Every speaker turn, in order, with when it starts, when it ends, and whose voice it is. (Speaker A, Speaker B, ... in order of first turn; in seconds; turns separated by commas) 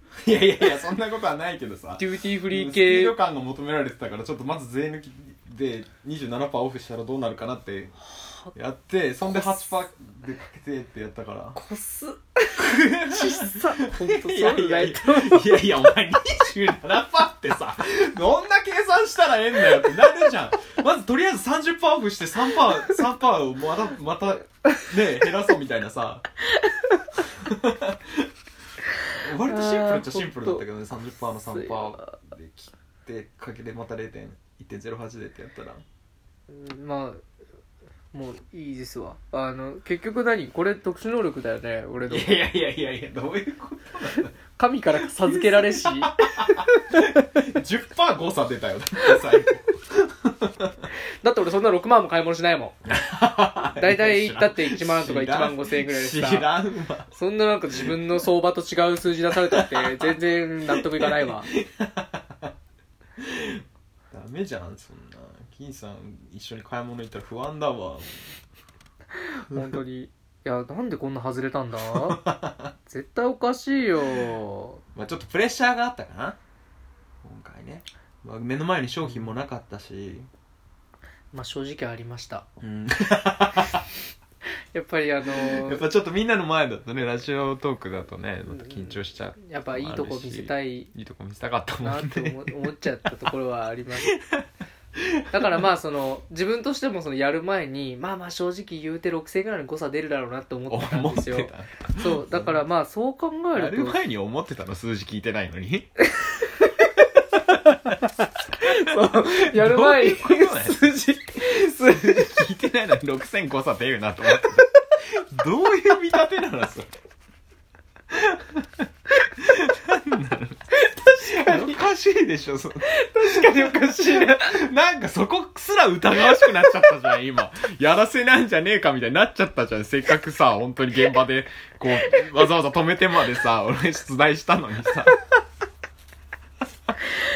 Speaker A: 0.2-8.0, Speaker B: 2.0-3.1, Speaker B: 8.2-8.5, Speaker A: 8.5-11.6, Speaker B: 9.2-9.8, Speaker B: 11.5-15.7, Speaker A: 12.6-26.3, Speaker B: 26.6-27.0, Speaker A: 27.2-28.3, Speaker A: 29.1-35.8, Speaker B: 29.4-30.6, Speaker B: 31.5-32.1, Speaker B: 36.5-37.2, Speaker B: 38.1-42.3, Speaker A: 42.0-44.3, Speaker B: 44.1-47.4, Speaker A: 45.0-50.9, Speaker B: 51.2-52.8, Speaker A: 52.9-57.1, Speaker B: 53.7-56.5, Speaker B: 57.1-61.5, Speaker A: 57.7-58.0, Speaker A: 59.3-60.1, Speaker A: 60.7-62.5, Speaker A: 63.2-68.3, Speaker B: 69.4-72.2, Speaker A: 69.5-69.8, Speaker A: 71.9-72.7, Speaker B: 72.9-74.8, Speaker A: 74.9-76.4, Speaker A: 77.2-80.3, Speaker B: 81.3-82.5, Speaker A: 82.6-83.8, Speaker B: 84.7-85.8, Speaker A: 85.3-93.3, Speaker B: 88.5-90.9, Speaker B: 91.8-94.1, Speaker A: 94.0-95.7, Speaker B: 95.3-104.0, Speaker A: 100.7-102.6, Speaker A: 103.5-105.9, Speaker B: 106.1-106.7, Speaker A: 107.4-107.9, Speaker B: 108.5-112.4, Speaker A: 108.7-116.9, Speaker A: 118.1-120.7, Speaker B: 120.7-121.8, Speaker A: 121.2-135.2, Speaker B: 122.8-124.6